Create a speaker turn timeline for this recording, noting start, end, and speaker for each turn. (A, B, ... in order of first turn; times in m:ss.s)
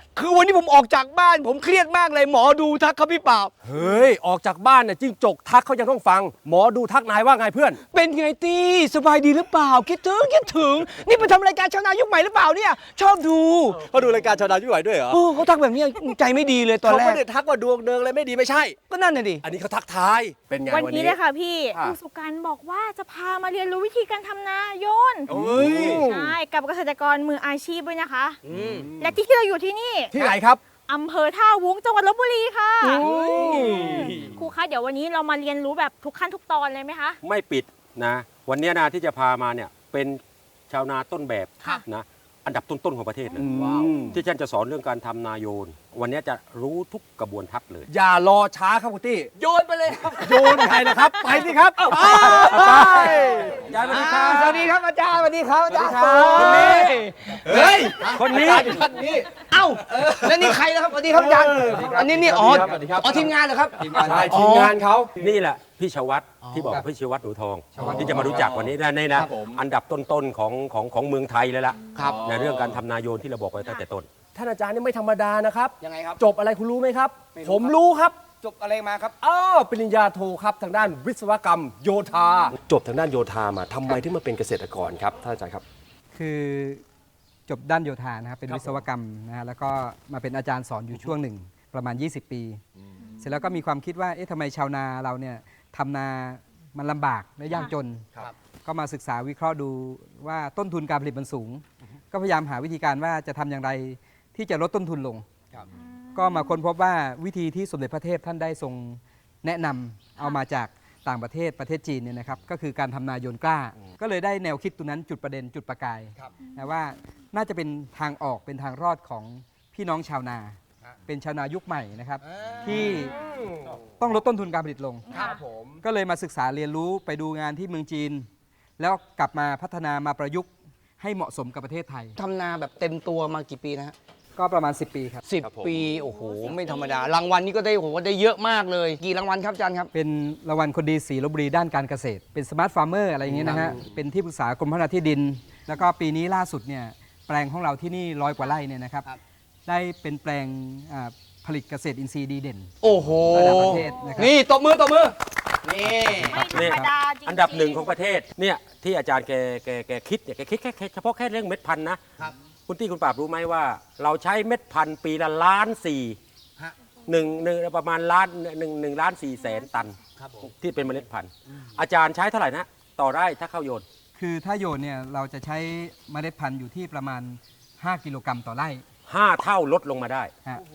0:00.2-0:03.5 A
0:03.6-0:07.8 B
0:07.9-0:13.8 A
0:13.7-0:15.2 B
0:15.1-0:17.2 A
0:16.8-0:18.8 B
0:18.9-0:19.4 A
0:19.4-0:21.2 B
0:20.7-0:25.3 C
0:25.3-0:26.1 B
0:25.3-0:26.3 A
0:25.8-0:28.4 C
0:28.4-0:28.9 A
0:28.5-0:29.2 B
0:29.0-0:30.2 C
0:30.1-0:30.6 B
0:30.9-0:37.2 C
0:32.8-0:34.4 B
0:32.9-0:33.8 A
0:37.2-0:47.9 D
0:43.4-0:44.2 B
0:43.5-0:43.9 A
0:47.9-0:49.3 B
0:49.4-0:58.6 A
0:50.2-0:53.7 B
0:52.5-0:53.1 D
0:53.6-0:54.7 D
0:55.7-1:05.2 B
0:56.3-0:57.0 D
0:58.2-0:58.8 D
0:59.5-1:04.8 A
1:01.7-1:02.8 E
1:04.0-1:04.2 E
1:05.2-1:14.1 D
1:06.4-1:06.8 A
1:07.7-1:08.0 E
1:07.8-1:09.6 B
1:07.8-1:08.5 A
1:11.9-1:12.2 A
1:12.0-1:12.8 B
1:14.3-1:18.2 B
1:15.8-1:16.2 A
1:17.3-1:17.7 A
1:18.4-1:19.1 A
1:19.2-1:25.6 B
1:26.1-1:26.8 E
1:27.5-1:32.6 E
1:28.5-1:28.8 B
1:33.2-1:38.1 E
1:38.6-1:45.3 E
1:45.7-1:46.6 C
1:46.1-2:03.2 E
2:02.3-2:02.9 A
2:02.6-2:03.8 B
2:04.0-2:05.1 E
2:05.1-2:05.4 C
2:05.1-2:05.8 B
2:05.8-2:10.5 E
2:11.0-2:12.1 E
2:12.2-2:13.9 A
2:14.4-2:15.2 E
2:15.3-2:19.9 A
2:15.4-2:15.9 B
2:15.8-2:17.1 C
2:19.9-2:29.1 E
2:23.3-2:23.8 B
2:29.6-2:32.7 E
2:32.8-2:36.4 A
2:33.3-2:34.3 E
2:33.8-2:34.1 C
2:35.8-2:36.9 E
2:36.3-2:37.9 C
2:36.3-2:42.0 D
2:42.7-2:46.2 D
2:47.1-2:53.8 D
2:50.2-2:50.5 A
2:54.1-2:58.8 E
2:59.1-3:00.3 D